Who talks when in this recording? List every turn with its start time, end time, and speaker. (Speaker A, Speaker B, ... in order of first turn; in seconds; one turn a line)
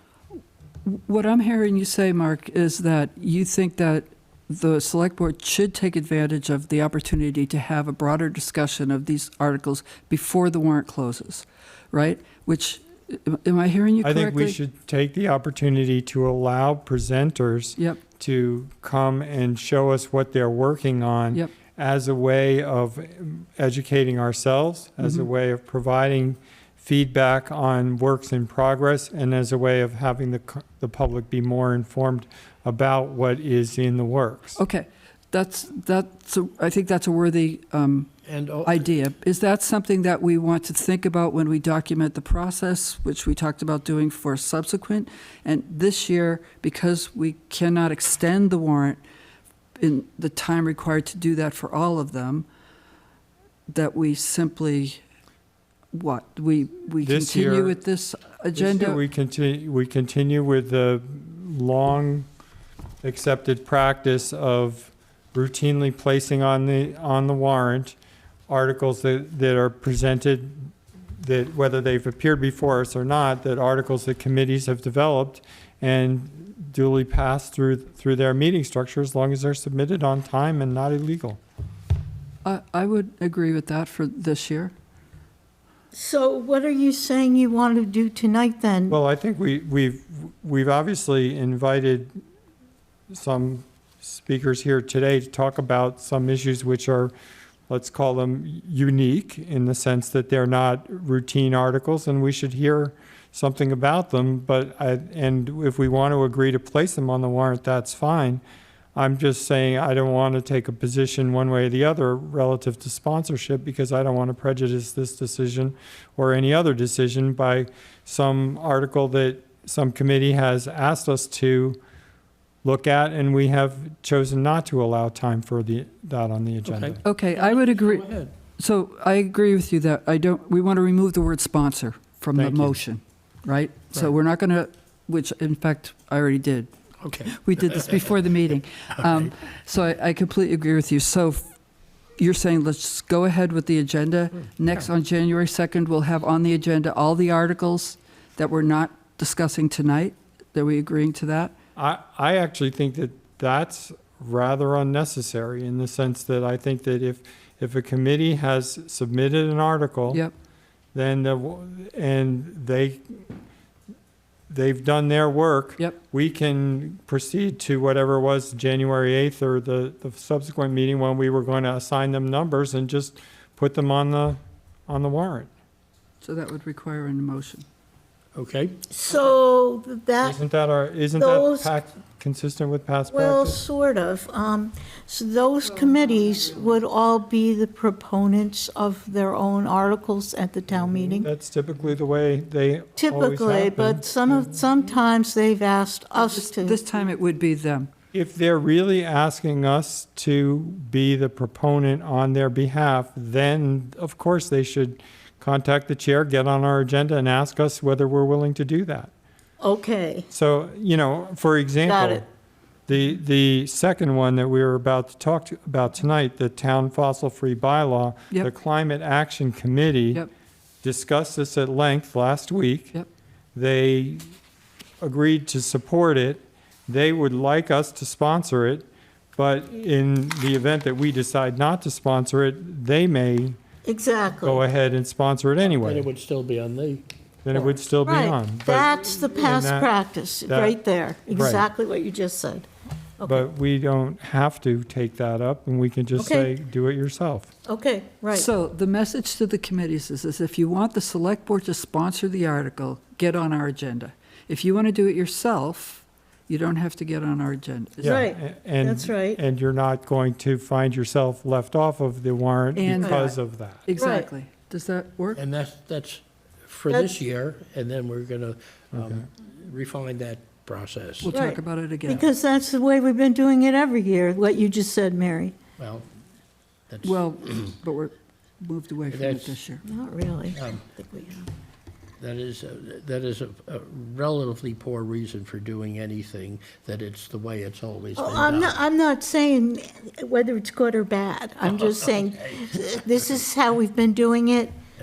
Speaker A: 0.8-14.6
Speaker B: 14.0-34.6
Speaker A: 25.0-25.3
Speaker A: 34.6-38.1
Speaker C: 38.3-38.9
Speaker A: 38.6-49.0
Speaker A: 49.8-52.5
Speaker A: 53.7-55.0
Speaker A: 55.9-59.0
Speaker B: 57.0-57.8
Speaker B: 58.5-62.3
Speaker B: 63.0-68.0
Speaker B: 68.5-81.4
Speaker A: 82.4-84.7
Speaker D: 85.9-89.0
Speaker B: 88.9-92.1
Speaker B: 93.1-97.1
Speaker B: 97.7-108.4
Speaker B: 108.9-121.8
Speaker B: 122.6-127.0
Speaker C: 126.7-128.3
Speaker A: 127.0-136.7
Speaker B: 132.3-132.8
Speaker C: 137.0-138.1
Speaker A: 137.3-141.5
Speaker C: 139.0-139.3
Speaker A: 142.2-151.5
Speaker B: 151.8-160.2
Speaker B: 160.9-163.2
Speaker B: 164.5-175.5
Speaker A: 176.2-177.7
Speaker C: 178.3-178.8
Speaker D: 178.9-180.4
Speaker B: 180.2-183.6
Speaker D: 181.2-181.7
Speaker D: 183.1-191.3
Speaker A: 185.6-186.8
Speaker B: 190.9-194.6
Speaker D: 193.0-196.8
Speaker A: 196.1-197.9
Speaker B: 198.1-209.1
Speaker D: 209.6-210.3
Speaker B: 210.3-212.2
Speaker D: 211.8-212.2
Speaker B: 212.9-220.2
Speaker B: 220.8-222.9
Speaker B: 223.5-224.3
Speaker B: 225.0-233.6
Speaker D: 233.8-234.6
Speaker B: 234.4-236.1
Speaker C: 235.6-237.0
Speaker B: 237.4-239.9
Speaker D: 238.0-242.7
Speaker B: 240.5-241.7
Speaker D: 243.2-243.4
Speaker B: 243.2-247.5
Speaker D: 246.2-246.5
Speaker D: 247.7-248.5
Speaker A: 248.3-258.2
Speaker B: 258.0-263.9
Speaker D: 258.0-259.4
Speaker A: 262.7-265.4
Speaker D: 264.0-264.3
Speaker C: 265.4-271.3
Speaker A: 271.2-272.3
Speaker D: 271.3-275.6
Speaker C: 275.8-276.1
Speaker C: 276.9-277.7
Speaker A: 277.0-279.8
Speaker C: 279.1-279.6
Speaker D: 279.8-281.5
Speaker C: 280.5-280.8
Speaker C: 282.2-288.8
Speaker D: 288.1-294.7
Speaker C: 291.6-292.9